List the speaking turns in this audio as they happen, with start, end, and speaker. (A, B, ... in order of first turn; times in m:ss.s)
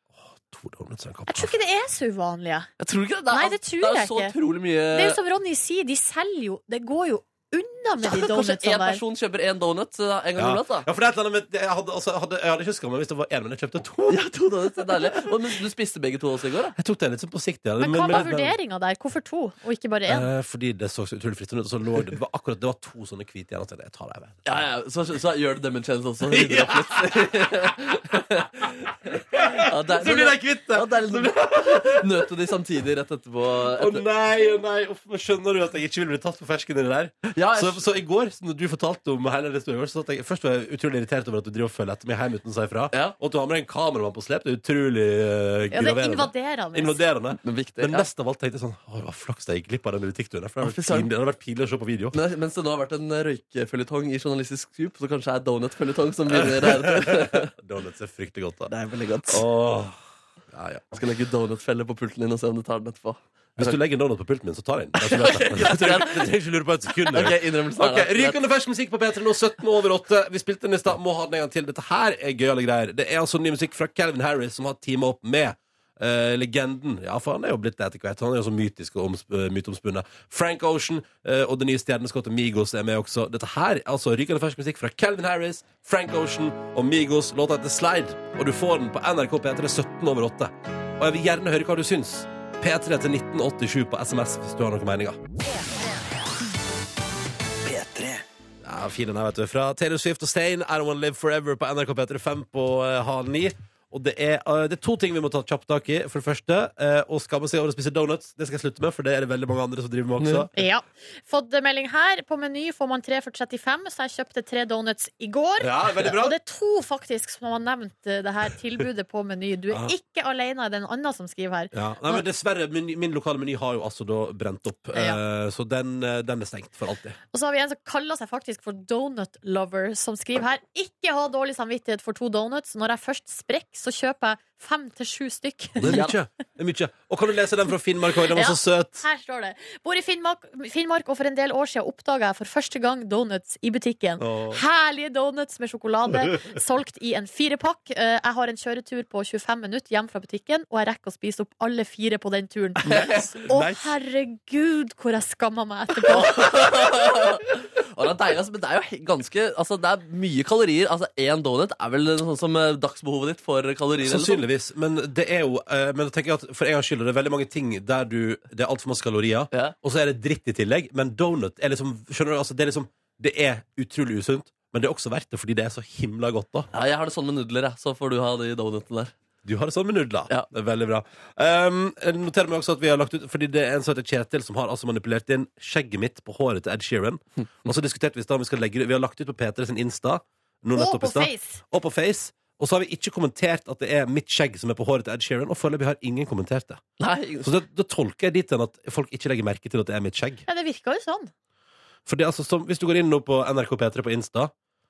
0:00.4-0:01.5 A
0:01.3-0:02.7 B
0:02.8-0:05.2 C
0:03.3-0:04.3 B
0:04.9-0:09.0 B
0:08.0-0:10.9 C
0:10.4-0:14.2 A
0:14.1-0:16.8 C
0:14.8-0:15.2 A
0:16.8-0:18.6 A
0:17.8-0:20.3 B
0:20.0-0:24.4 A
0:24.4-0:34.0 C
0:26.2-0:27.8 A
0:29.3-0:32.3 A
0:33.7-0:52.2 A
0:37.3-0:37.8 C
0:45.7-0:47.0 B
0:47.4-0:48.1 C
0:50.6-0:51.1 C
0:52.1-0:57.5 C
0:56.3-0:58.7 A
0:58.7-0:59.4 C
0:59.3-1:00.0 A
1:00.5-1:01.0 A
1:00.9-1:03.8 C
1:03.6-1:35.2 A
1:05.0-1:06.3 C
1:07.1-1:08.4 C
1:37.7-1:38.0 C
1:38.6-1:50.5 A
1:50.2-1:50.5 C
1:50.6-2:02.2 B
1:55.6-1:56.4 A
2:01.7-2:07.2 A
2:04.9-2:05.2 B
2:07.3-2:16.0 B
2:15.8-2:19.0 A
2:15.8-2:16.1 C
2:18.3-2:36.5 B
2:24.2-2:24.6 A
2:32.8-2:33.9 A
2:36.1-2:44.4 C
2:44.0-2:56.7 A
2:56.7-2:59.1 C
2:59.4-3:16.8 A
3:10.7-3:11.6 B
3:17.0-3:17.5 C
3:17.4-3:20.4 A
3:20.5-3:21.3 B
3:22.0-3:24.5 A